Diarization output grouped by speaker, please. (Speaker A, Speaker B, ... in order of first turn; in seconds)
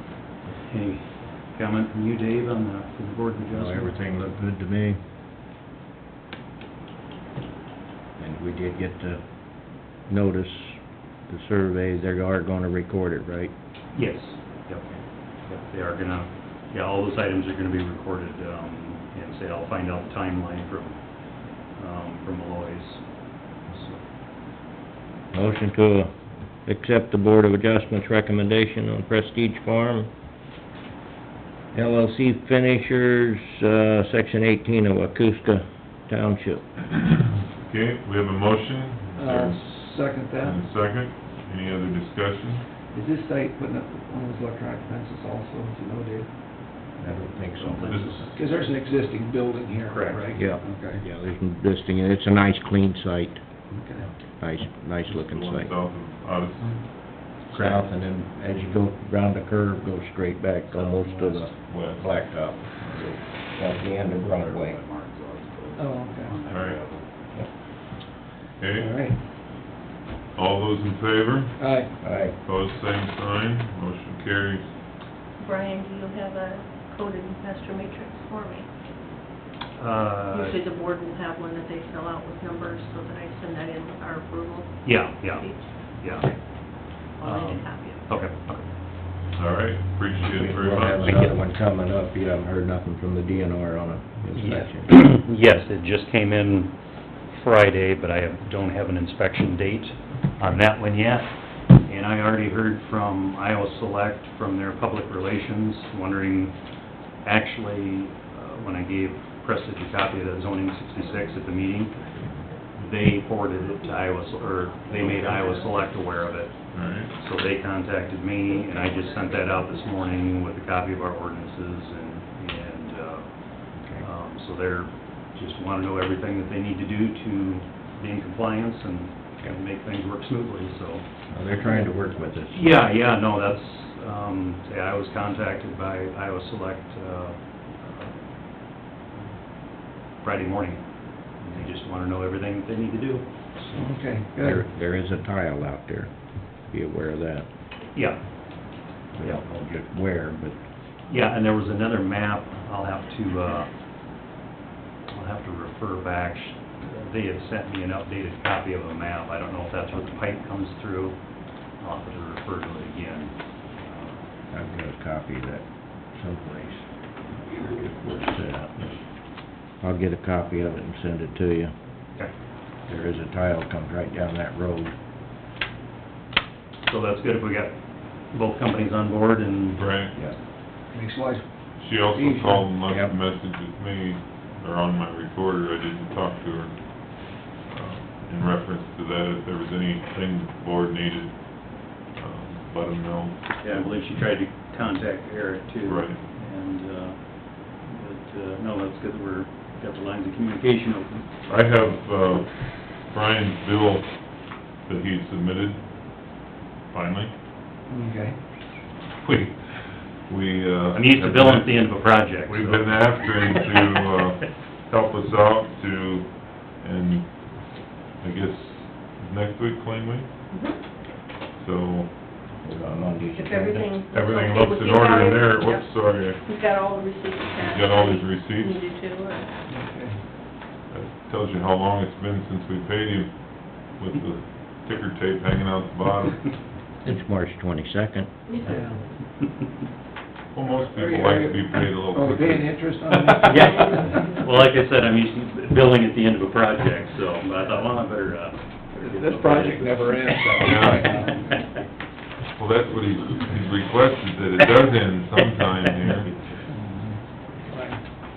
Speaker A: 0.6-4.1, 13.9-21.0, 21.7-23.1, 23.7-24.0, 47.5-48.5, 49.9-50.6, 57.5-57.9, 60.7-61.6, 63.8-67.1, 79.8-80.6, 84.8-86.4, 87.2-88.7, 91.0-91.3, 94.3-112.0, 112.8-131.0, 132.5-138.2, 140.2-143.3, 147.9-149.5, 151.1-153.8, 155.1-161.2, 161.8-164.3, 176.8-179.8, 193.6-201.3, 209.2-209.5, 210.9-213.7, 243.4-251.7
Speaker B: 3.5-5.0, 8.2-9.2, 9.8-13.5, 25.3-26.1, 26.7-30.1, 31.7-36.6, 47.0-48.1, 50.3-53.4, 54.3-55.7, 57.5-64.8, 72.0-72.4, 90.3-95.0, 123.8-124.1, 131.3-132.8, 144.4-146.1, 146.7-147.5, 149.1-150.6, 164.5-168.9, 169.6-171.7, 172.8-174.9, 182.9-183.1, 222.6-223.9, 237.0-238.3
Speaker C: 37.6-42.6, 47.8-48.4, 55.1-57.0, 61.7-63.1, 66.5-66.8, 68.6-69.1, 70.3-74.7, 89.3-91.3, 114.9-115.5, 116.7-117.1, 179.8-180.2, 181.8-194.2, 195.8-196.2, 201.5-207.3, 210.2-220.3, 221.5-222.3, 224.1-226.4, 227.6-228.8, 230.9-236.6, 240.5-242.9, 250.6-251.2, 252.5-256.3
Speaker D: 39.2-40.6, 42.9-46.4, 48.4-51.0, 53.7-54.1, 65.8-66.4, 68.8-69.2, 71.6-71.9, 143.6-144.6, 180.9-182.7, 207.9-208.4, 229.7-230.2, 238.7-239.0, 240.9-244.3, 248.9-251.6, 256.7-258.1
Speaker E: 75.4-78.7, 80.3-86.3, 87.1-88.2, 111.0-111.3, 114.8-115.7, 118.7-120.1, 220.5-220.9, 223.3-229.5